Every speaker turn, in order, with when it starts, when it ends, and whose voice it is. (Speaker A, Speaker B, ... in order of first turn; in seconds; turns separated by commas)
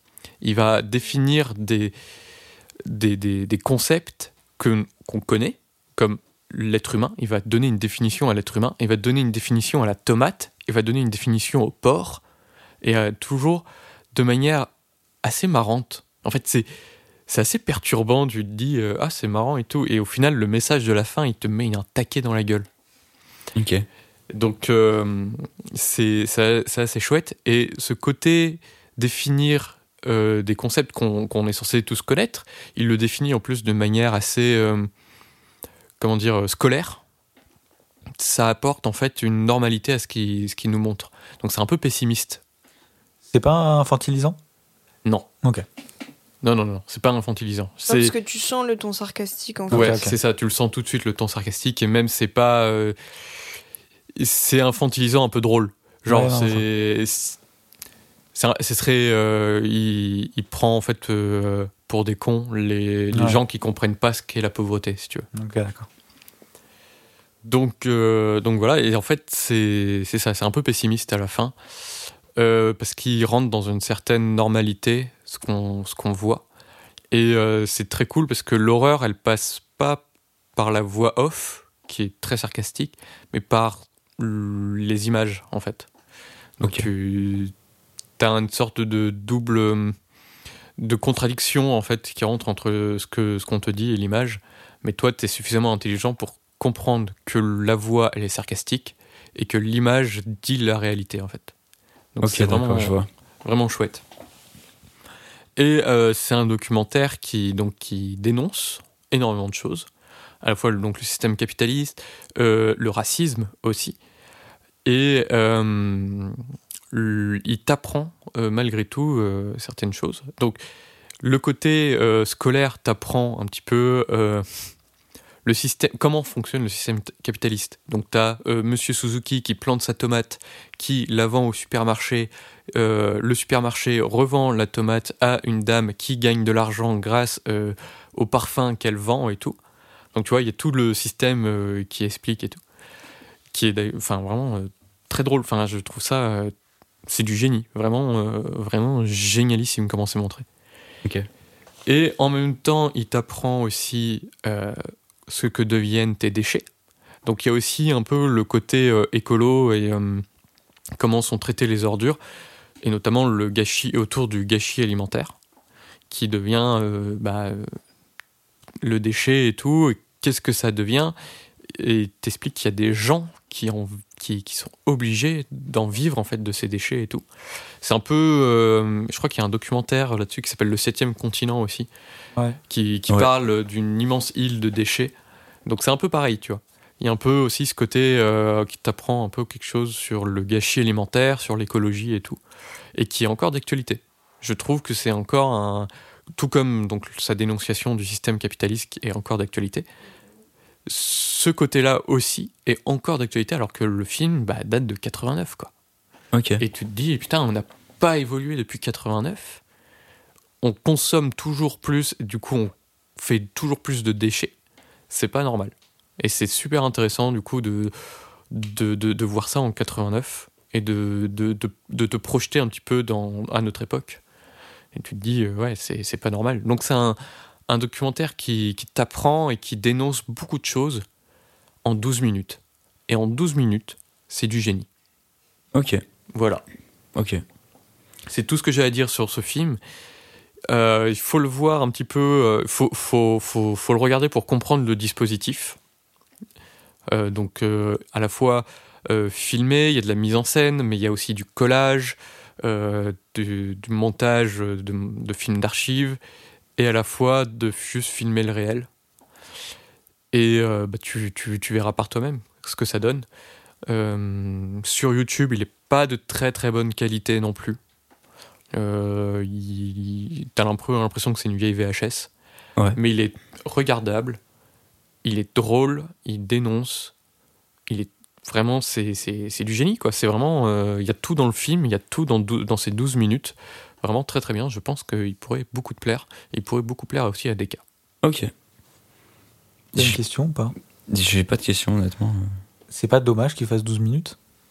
Speaker A: 0.4-1.9, Speaker A: 2.9-12.2, Speaker A: 12.8-14.7, Speaker A: 15.2-16.7, Speaker A: 17.3-22.7, Speaker B: 23.6-23.9, Speaker A: 24.3-34.9, Speaker A: 36.0-37.0, Speaker A: 38.2-42.4, Speaker C: 43.3-44.4, Speaker A: 46.4-48.1, Speaker D: 47.9-50.0, Speaker C: 49.7-50.1, Speaker A: 49.7-53.0, Speaker A: 54.1-57.4, Speaker C: 56.1-56.6, Speaker A: 58.4-65.3, Speaker C: 63.1-63.4, Speaker C: 65.3-65.9, Speaker A: 67.4-71.6, Speaker A: 72.3-76.5, Speaker A: 77.1-80.0, Speaker A: 80.6-85.9, Speaker A: 86.6-87.5, Speaker B: 86.6-86.9, Speaker A: 88.2-90.0, Speaker A: 90.8-101.5, Speaker A: 102.2-104.0, Speaker B: 102.2-103.1, Speaker A: 105.6-109.9, Speaker A: 110.4-114.0, Speaker A: 114.8-120.6, Speaker A: 121.2-124.5, Speaker A: 125.5-139.6, Speaker A: 140.1-142.6, Speaker A: 143.5-146.5, Speaker A: 147.1-150.4, Speaker A: 151.9-156.7, Speaker A: 157.2-160.2, Speaker A: 161.0-162.2, Speaker A: 162.8-165.3, Speaker A: 166.1-167.8, Speaker A: 168.8-171.2, Speaker A: 171.7-177.2, Speaker A: 177.8-181.9, Speaker A: 182.7-185.1, Speaker A: 185.7-192.4, Speaker A: 192.9-199.9, Speaker A: 200.9-205.7, Speaker B: 206.3-206.6, Speaker A: 206.6-209.6, Speaker A: 210.6-214.6, Speaker A: 215.1-217.9, Speaker A: 218.5-224.2, Speaker A: 224.9-227.2, Speaker A: 227.7-231.0, Speaker A: 231.8-234.9, Speaker B: 235.7-236.0, Speaker A: 236.3-236.6, Speaker B: 237.2-237.4, Speaker A: 238.3-239.8, Speaker A: 240.7-245.8, Speaker A: 247.1-256.2, Speaker A: 256.8-258.9, Speaker A: 260.3-263.2, Speaker A: 263.9-267.8, Speaker A: 268.7-272.3, Speaker A: 272.9-274.4, Speaker A: 275.2-277.1, Speaker A: 277.9-287.8, Speaker B: 288.2-288.5, Speaker C: 289.9-290.7, Speaker B: 291.1-292.6, Speaker C: 292.9-294.4